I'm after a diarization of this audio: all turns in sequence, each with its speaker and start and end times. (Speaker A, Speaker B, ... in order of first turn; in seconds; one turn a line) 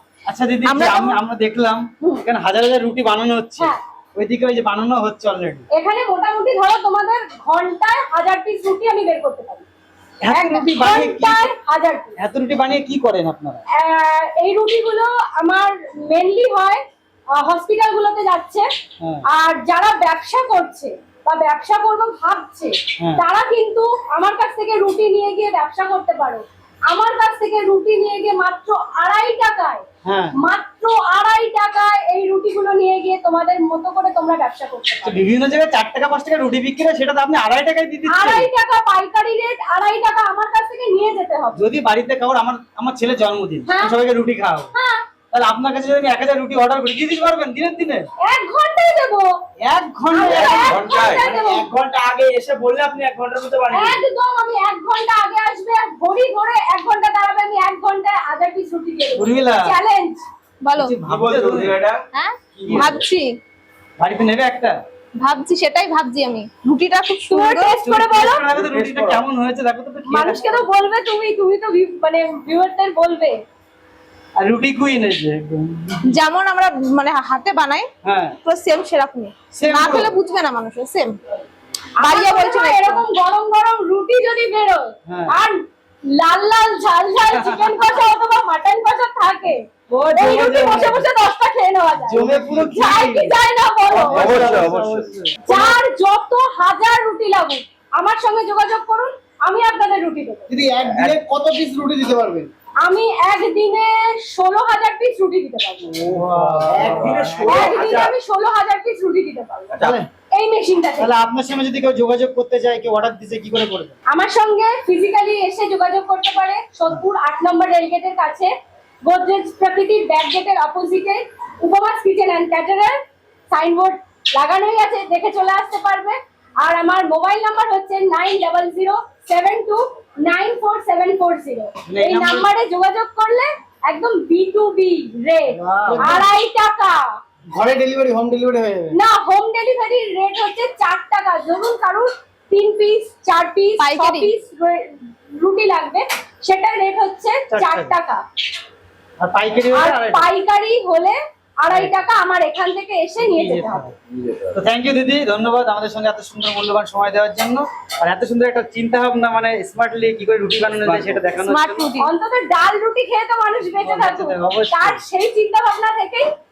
Speaker A: 0.3-5.7
Speaker B: 0.6-1.2
Speaker C: 5.7-9.7
Speaker A: 10.2-11.5
Speaker C: 10.3-12.1
Speaker A: 12.2-13.6
Speaker C: 13.7-16.8
Speaker C: 17.3-18.6
Speaker C: 19.3-29.8
Speaker A: 30.0-30.3
Speaker C: 30.4-35.3
Speaker A: 35.0-38.5
Speaker C: 38.1-41.6
Speaker A: 41.6-44.7
Speaker C: 43.6-44.0
Speaker C: 44.7-45.0
Speaker A: 45.3-48.1
Speaker C: 48.2-49.3
Speaker A: 49.6-50.8
Speaker C: 50.1-51.7
Speaker D: 50.2-54.0
Speaker C: 53.7-60.2
Speaker A: 59.1-59.7
Speaker B: 60.6-61.0
Speaker A: 60.7-61.8
Speaker D: 61.0-62.0
Speaker B: 62.1-63.3
Speaker D: 62.5-63.0
Speaker A: 62.6-63.0
Speaker A: 64.0-64.8
Speaker B: 65.2-67.8
Speaker C: 67.3-68.5
Speaker A: 67.8-70.7
Speaker D: 68.5-69.2
Speaker C: 70.1-73.4
Speaker A: 74.4-76.2
Speaker B: 76.1-77.9
Speaker A: 78.0-78.3
Speaker B: 78.4-81.2
Speaker A: 79.5-80.2
Speaker C: 82.0-85.6
Speaker B: 82.0-83.0
Speaker A: 85.1-85.3
Speaker C: 86.1-94.5
Speaker A: 87.3-87.8
Speaker A: 89.9-91.0
Speaker A: 92.1-93.3
Speaker E: 92.1-93.2
Speaker A: 93.9-95.4
Speaker E: 93.9-95.1
Speaker D: 94.2-95.1
Speaker C: 95.5-100.5
Speaker E: 100.5-102.5
Speaker D: 100.8-101.2
Speaker C: 102.8-106.0
Speaker D: 106.0-108.1
Speaker A: 106.0-107.8
Speaker C: 107.5-109.7
Speaker D: 109.7-110.0
Speaker A: 109.8-110.1
Speaker C: 110.3-111.1
Speaker A: 111.0-114.0
Speaker C: 114.1-118.5
Speaker C: 119.0-123.0
Speaker C: 123.5-137.0
Speaker A: 131.9-132.5
Speaker A: 135.5-136.2
Speaker E: 135.8-136.2
Speaker E: 137.5-138.9
Speaker C: 138.9-148.2
Speaker B: 143.8-144.3
Speaker A: 147.5-147.9
Speaker A: 149.2-150.3
Speaker C: 149.7-153.9
Speaker A: 153.2-153.9
Speaker A: 154.5-161.9
Speaker B: 161.4-162.1
Speaker C: 162.0-166.3
Speaker A: 163.7-165.0